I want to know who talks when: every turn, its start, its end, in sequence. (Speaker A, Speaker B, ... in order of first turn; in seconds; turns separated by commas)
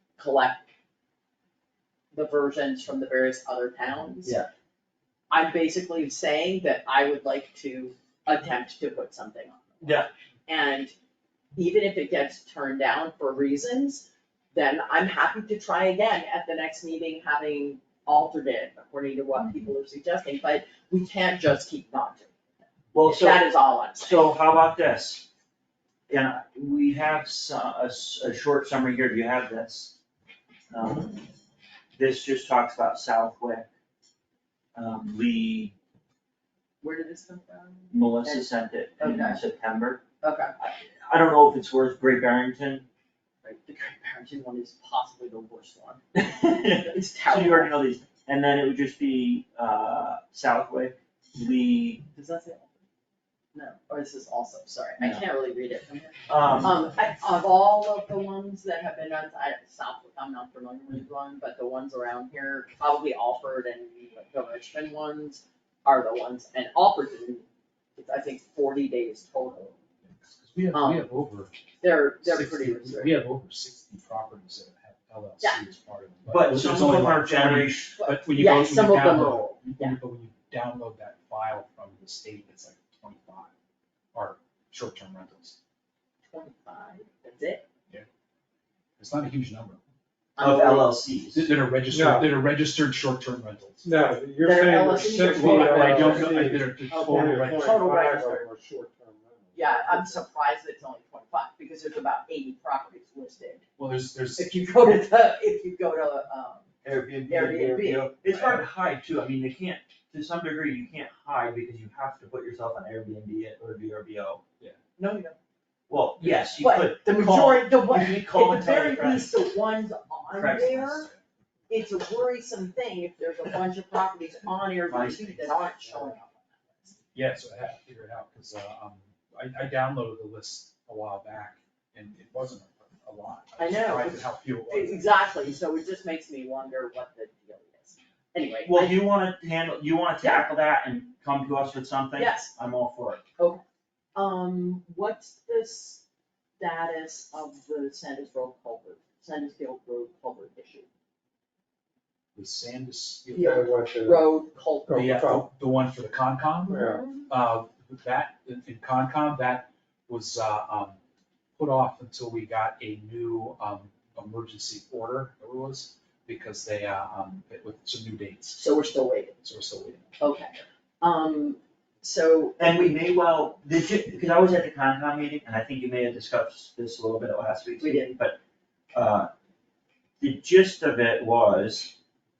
Speaker A: 0.2-0.7, Speaker A: 2.1-4.4, Speaker B: 4.2-4.5, Speaker A: 5.3-10.9, Speaker B: 9.8-10.1, Speaker A: 11.6-22.4, Speaker B: 22.9-25.3, Speaker A: 23.0-24.4, Speaker B: 26.1-30.0, Speaker B: 30.7-31.3, Speaker B: 32.0-33.7, Speaker B: 34.8-35.7, Speaker A: 36.8-38.5, Speaker B: 37.9-40.0, Speaker A: 39.0-39.4, Speaker A: 40.2-40.5, Speaker B: 40.6-42.9, Speaker A: 43.4-47.7, Speaker B: 46.2-52.0, Speaker A: 52.1-52.7, Speaker A: 53.5-69.8, Speaker B: 56.3-56.7, Speaker C: 70.1-71.6, Speaker A: 70.7-71.1, Speaker A: 71.8-73.2, Speaker C: 72.2-83.5, Speaker A: 75.4-75.7, Speaker B: 76.3-78.0, Speaker A: 78.0-80.0, Speaker C: 84.1-85.6, Speaker A: 86.3-87.6, Speaker C: 89.0-89.8, Speaker A: 90.4-91.0, Speaker B: 90.4-91.5, Speaker C: 91.3-93.9, Speaker D: 91.9-92.3, Speaker D: 93.8-100.2, Speaker A: 94.4-98.5, Speaker C: 95.3-97.8, Speaker A: 99.5-103.7, Speaker C: 103.8-104.7, Speaker A: 104.4-106.7, Speaker B: 106.8-114.4, Speaker A: 107.3-108.2, Speaker C: 108.3-108.6, Speaker A: 115.0-115.4, Speaker B: 115.9-119.3, Speaker C: 116.2-116.6, Speaker A: 116.6-121.1, Speaker B: 120.3-120.8, Speaker C: 120.8-121.2, Speaker A: 121.7-127.0, Speaker B: 124.9-125.6, Speaker C: 127.1-135.1, Speaker A: 133.6-139.0, Speaker B: 138.7-143.2, Speaker A: 140.2-140.5, Speaker A: 142.2-142.5, Speaker A: 144.2-146.0, Speaker A: 146.6-150.9, Speaker C: 152.3-153.5, Speaker A: 153.3-155.2, Speaker D: 153.4-154.3, Speaker D: 154.9-155.5, Speaker C: 154.9-161.0, Speaker A: 156.7-157.3, Speaker D: 156.8-157.0, Speaker C: 161.6-168.7, Speaker A: 168.6-169.3, Speaker C: 169.4-170.1, Speaker A: 170.2-172.9, Speaker B: 172.6-178.4, Speaker A: 177.8-178.2, Speaker B: 178.9-179.3, Speaker B: 180.2-182.0